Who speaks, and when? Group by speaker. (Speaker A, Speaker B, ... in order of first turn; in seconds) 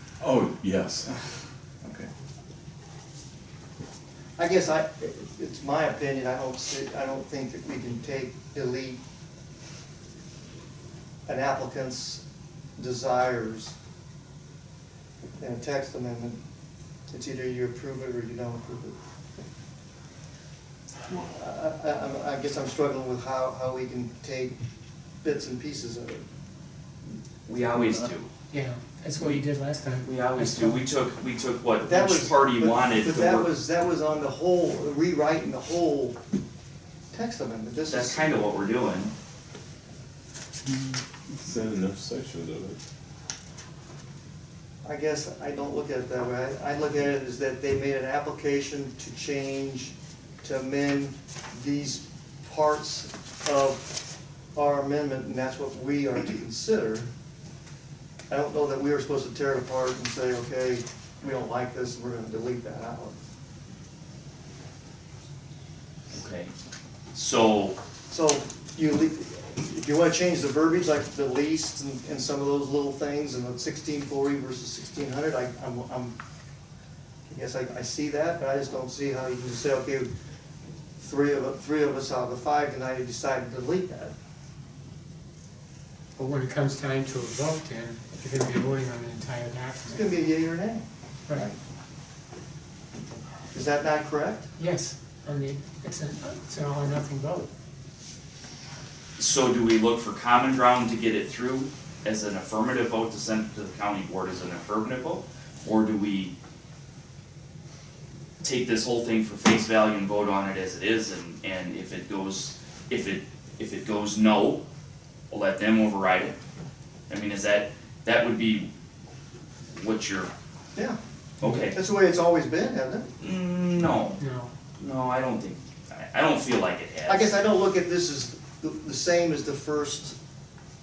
Speaker A: 0.2-1.1, 40.7-42.8
Speaker B: 4.4-9.0, 11.3-12.2, 12.8-13.8, 15.4-16.4, 17.1-19.0, 21.3-24.6, 25.2-26.2, 31.8-36.2, 37.1-38.3, 44.8-54.0, 54.5-57.1, 58.3-63.1, 68.1-76.2, 77.3-80.1, 81.0-84.1, 89.9-91.6, 93.5-94.5, 121.5-123.1, 127.1-130.2
Speaker C: 27.5-28.3, 29.1-29.4, 30.0-33.5, 37.9-39.1, 66.1-66.5, 67.1-67.8, 99.2-106.3, 108.4-114.6, 115.3-116.4, 117.1-118.7, 119.7-120.3, 121.4-121.8, 123.2-124.2, 124.8-127.3
Speaker D: 28.5-30.8, 86.2-90.2, 94.6-97.5, 124.2-124.5